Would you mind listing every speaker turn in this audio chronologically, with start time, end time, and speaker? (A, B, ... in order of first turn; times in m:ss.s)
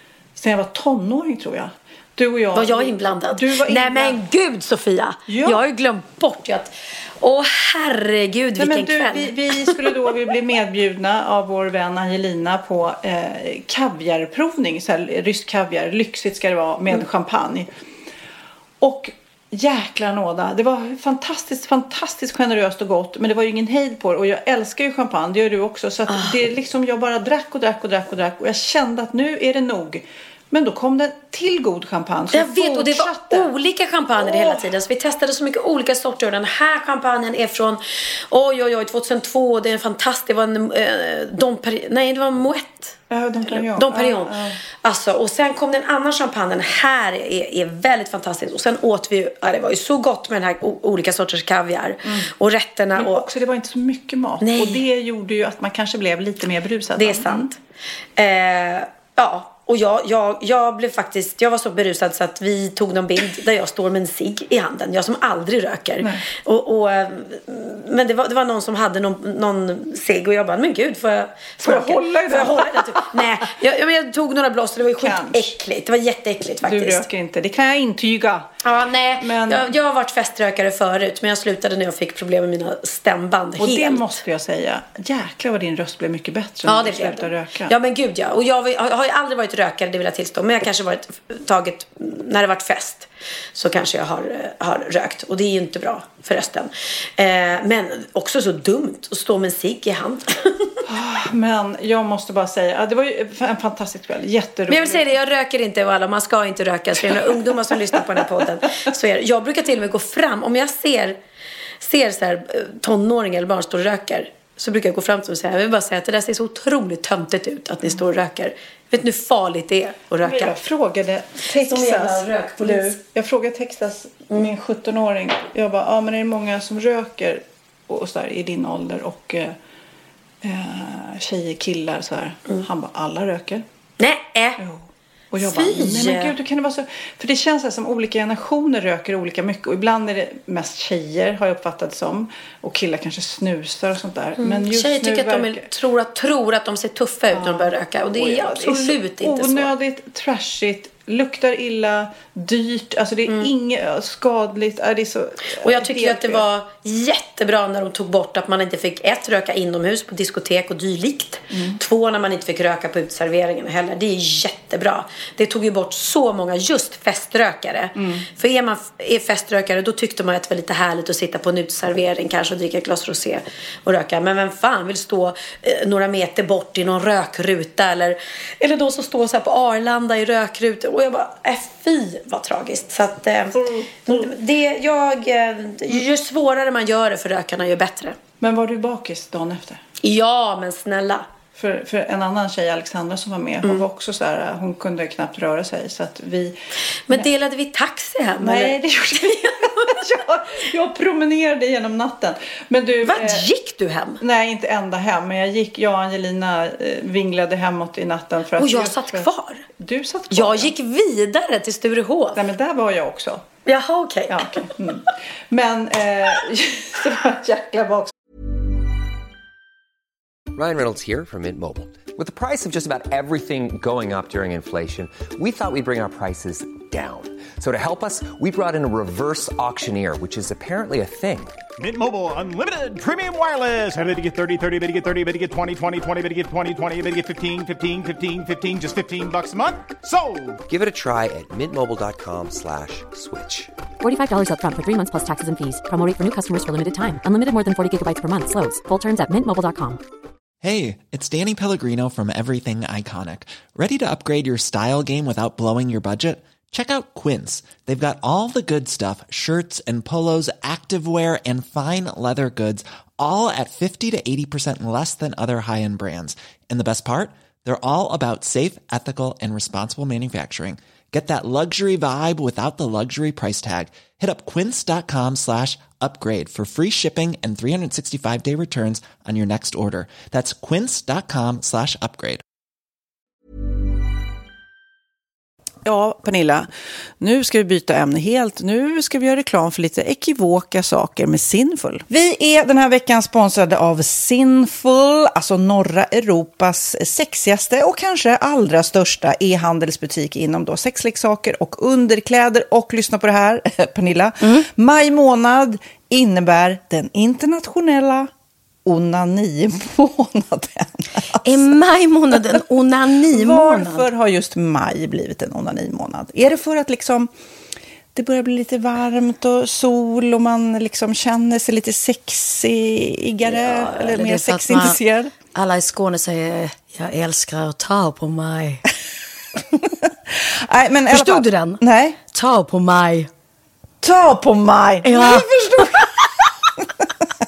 0:00.4-0:04.2 A
0:02.6-0:10.0 B
0:05.3-0:05.6 A
0:08.6-0:17.7 A
0:18.8-0:33.5 A
0:26.1-0:26.4 B
0:32.3-0:53.3 B
0:34.2-0:34.7 A
0:43.1-0:44.6 A
0:52.0-0:52.3 A
0:53.0-0:57.5 A
0:54.4-0:54.8 B
0:57.0-0:57.6 B
0:58.2-1:17.1 B
1:06.0-1:06.3 A
1:11.6-1:13.4 A
1:15.0-1:15.5 A
1:16.6-1:18.5 A
1:18.6-1:24.2 B
1:19.2-1:19.8 A
1:23.6-1:27.7 A
1:26.7-1:40.8 B
1:40.9-1:45.1 A
1:44.7-1:51.2 B
1:47.0-1:48.6 A
1:51.8-2:00.6 B
2:00.2-2:09.6 A
2:01.6-2:03.0 B
2:10.4-2:13.6 A
2:14.0-2:14.6 B
2:14.6-2:25.7 A
2:15.4-2:16.3 B
2:24.4-2:29.7 B
2:27.3-2:36.5 A
2:35.5-3:08.2 B
2:41.5-2:41.8 A
2:48.0-2:48.2 A
3:03.5-3:04.4 A
3:08.4-3:09.8 A
3:10.0-3:11.3 B
3:11.6-3:16.6 A
3:17.1-3:20.0 B
3:18.4-3:23.5 A
3:23.0-3:24.2 B
3:24.2-3:30.7 A
3:28.6-3:29.7 B
3:30.3-3:32.4 B
3:32.3-3:33.5 A
3:33.6-3:34.7 B
3:34.3-3:38.1 A
3:40.5-3:51.6 C
3:51.8-4:00.6 D
4:00.7-4:03.7 C
4:04.0-4:10.0 E
4:10.6-4:42.4 F
4:45.8-4:46.7 A
4:47.2-5:08.3 A
5:08.8-5:11.8 A
5:11.4-5:14.1 B
5:12.3-5:12.6 A
5:13.2-5:17.3 A
5:18.2-5:25.3 A
5:23.4-5:25.0 B
5:25.5-5:28.8 B
5:30.4-5:32.2 A
5:31.1-5:33.3 B
5:34.0-5:36.1 A
5:35.0-5:36.1 B